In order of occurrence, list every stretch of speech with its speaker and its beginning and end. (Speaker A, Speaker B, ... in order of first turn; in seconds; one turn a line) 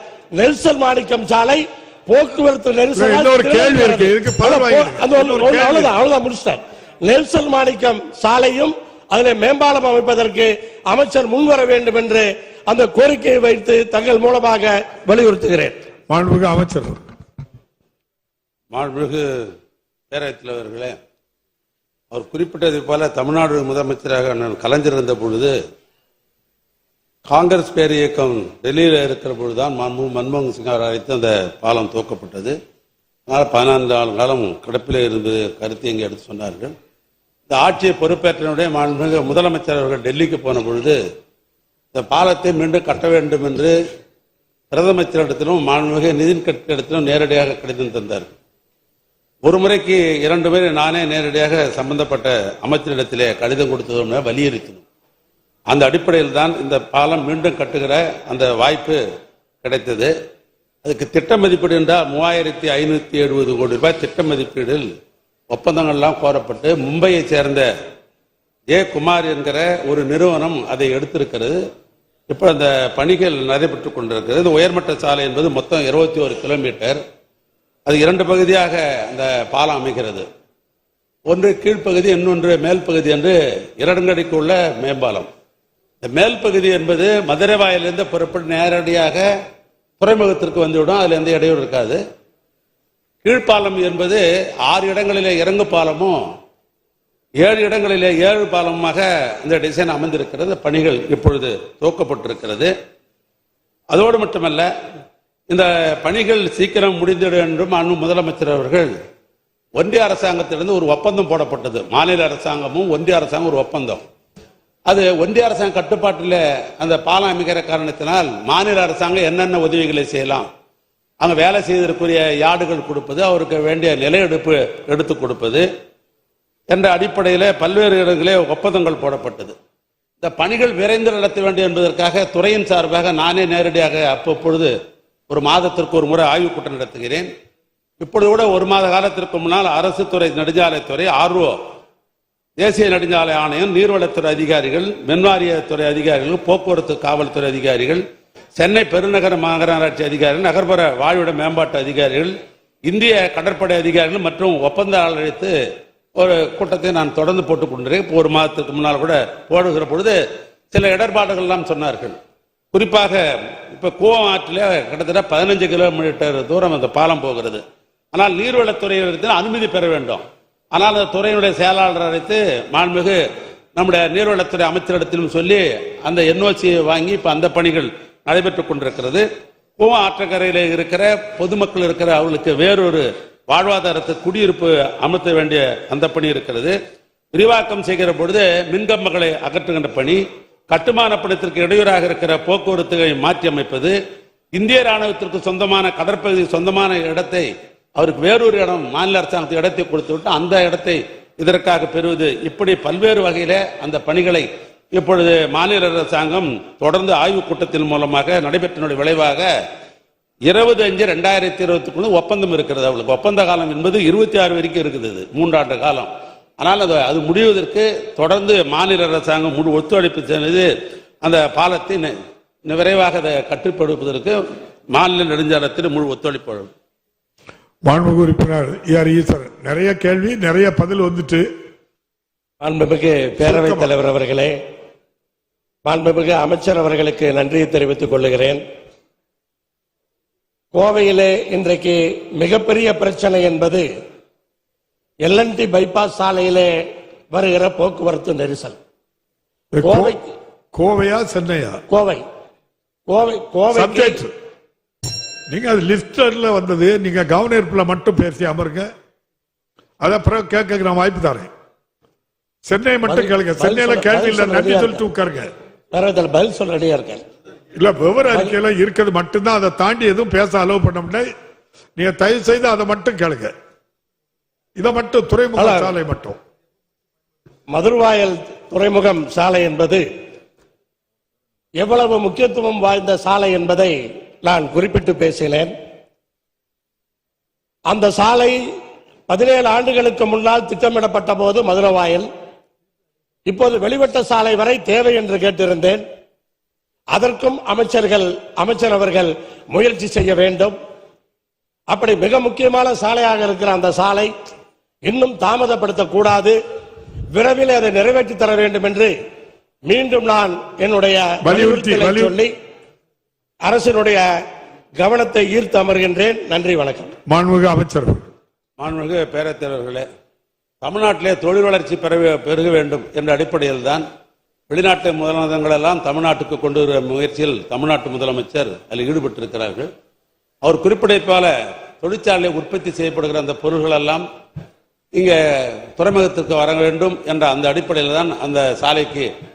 Speaker A: 0.3-15.8
Speaker B: 2.9-5.9
Speaker B: 16.1-17.0
Speaker C: 18.7-19.4
Speaker C: 20.1-20.9
Speaker C: 22.1-25.5
Speaker C: 27.3-32.5
Speaker C: 33.3-36.7
Speaker C: 37.5-41.0
Speaker C: 41.9-43.7
Speaker C: 44.7-48.3
Speaker C: 49.5-54.8
Speaker C: 55.7-59.0
Speaker C: 59.6-60.1
Speaker C: 60.8-64.9
Speaker C: 65.5-67.7
Speaker C: 68.7-71.6
Speaker C: 72.3-77.0
Speaker C: 77.9-80.2
Speaker C: 81.3-85.3
Speaker C: 86.0-89.3
Speaker C: 90.0-92.0
Speaker C: 93.2-96.2
Speaker C: 97.4-102.7
Speaker C: 103.9-104.7
Speaker C: 105.5-108.9
Speaker C: 109.8-114.0
Speaker C: 114.9-120.5
Speaker C: 121.2-125.7
Speaker C: 126.7-129.5
Speaker C: 130.2-134.7
Speaker C: 135.3-137.3
Speaker C: 138.0-141.5
Speaker C: 142.6-148.0
Speaker C: 148.6-152.3
Speaker C: 152.9-155.5
Speaker C: 156.2-160.2
Speaker C: 160.7-162.2
Speaker C: 162.7-163.2
Speaker C: 163.7-167.6
Speaker C: 168.1-170.2
Speaker C: 170.7-173.2
Speaker C: 173.8-179.2
Speaker C: 179.8-186.8
Speaker C: 187.3-193.9
Speaker C: 194.5-209.5
Speaker C: 210.5-220.7
Speaker C: 221.2-222.1
Speaker C: 222.7-224.3
Speaker C: 224.9-226.7
Speaker B: 227.9-231.4
Speaker A: 232.6-234.5
Speaker B: 233.4-233.9
Speaker A: 235.8-238.6
Speaker A: 240.7-243.8
Speaker A: 245.2-246.7
Speaker A: 247.3-248.8
Speaker B: 249.7-250.2
Speaker A: 249.8-250.2
Speaker B: 250.7-251.8
Speaker A: 251.9-252.2
Speaker A: 253.1-254.2
Speaker B: 253.7-254.3
Speaker B: 255.5-258.9
Speaker B: 260.0-261.5
Speaker B: 262.6-265.5
Speaker A: 263.0-265.0
Speaker A: 265.9-267.2
Speaker B: 267.8-271.3
Speaker B: 271.9-273.5
Speaker B: 274.8-276.4
Speaker A: 275.6-275.9
Speaker A: 277.7-280.0
Speaker A: 281.8-285.7
Speaker A: 287.9-288.6
Speaker A: 289.3-292.3
Speaker A: 293.5-296.0
Speaker A: 297.1-300.7
Speaker A: 301.9-304.3
Speaker A: 305.1-306.6
Speaker A: 307.3-309.1
Speaker A: 309.9-312.5
Speaker B: 311.4-312.3
Speaker A: 313.6-314.2
Speaker A: 315.0-317.1
Speaker B: 317.3-318.3
Speaker C: 318.8-320.1
Speaker C: 320.8-324.0
Speaker C: 324.7-329.9
Speaker C: 330.6-334.2
Speaker C: 335.1-339.3